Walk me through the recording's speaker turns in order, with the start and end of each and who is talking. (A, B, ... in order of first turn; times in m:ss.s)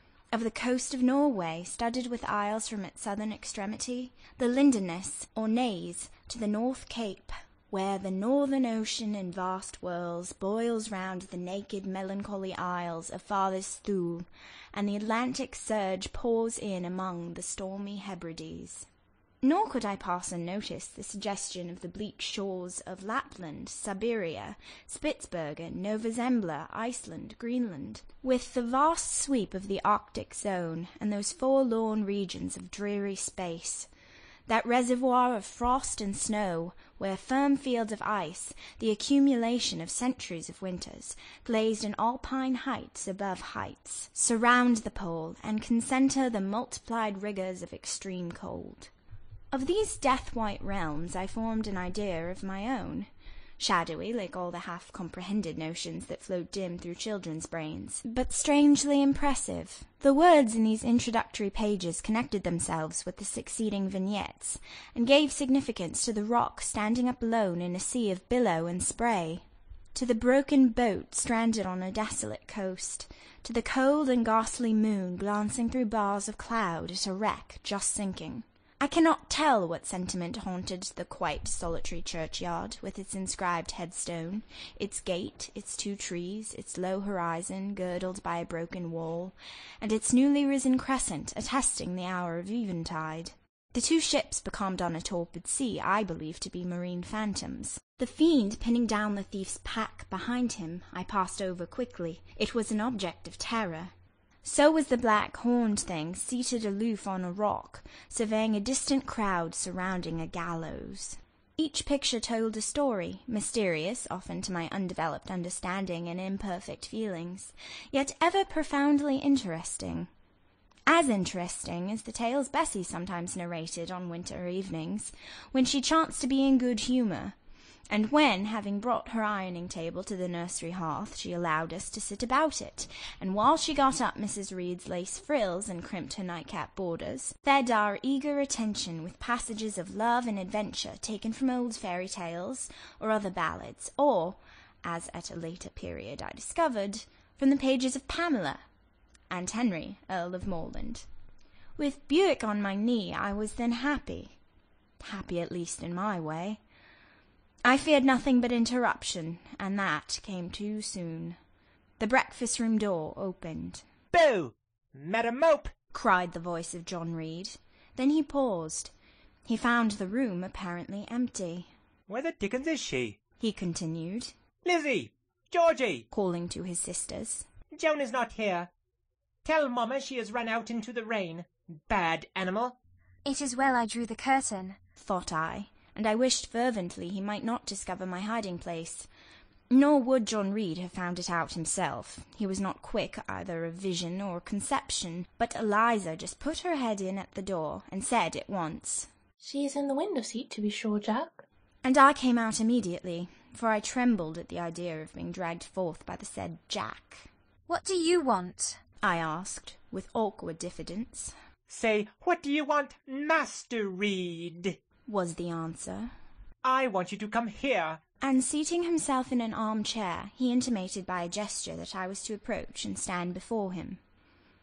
0:00.3-0:18.9 A
0:19.4-0:33.9 A
0:34.5-0:48.9 A
0:49.5-1:43.9 A
1:44.4-2:00.1 A
2:00.9-2:07.4 A
2:07.9-2:28.6 A
2:29.3-2:31.1 A
2:31.8-2:34.4 A
2:35.0-2:36.6 A
2:37.6-2:41.4 A
2:42.0-2:43.9 A
2:44.1-2:45.7 B
2:45.9-2:48.9 A
2:49.5-2:51.7 A
2:52.1-2:53.2 B
2:53.4-2:54.3 A
2:54.6-2:56.0 B
2:56.1-2:57.5 A
2:57.7-2:58.7 B
2:59.4-3:02.8 B
3:03.2-3:04.8 C
3:05.0-3:09.1 A
3:09.7-3:19.1 A
3:19.4-3:21.4 D
3:21.8-3:27.3 A
3:27.7-3:28.8 C
3:29.0-3:31.3 A
3:31.7-3:34.8 B
3:35.1-3:36.1 A
3:36.6-3:38.0 B
3:38.2-3:44.0 A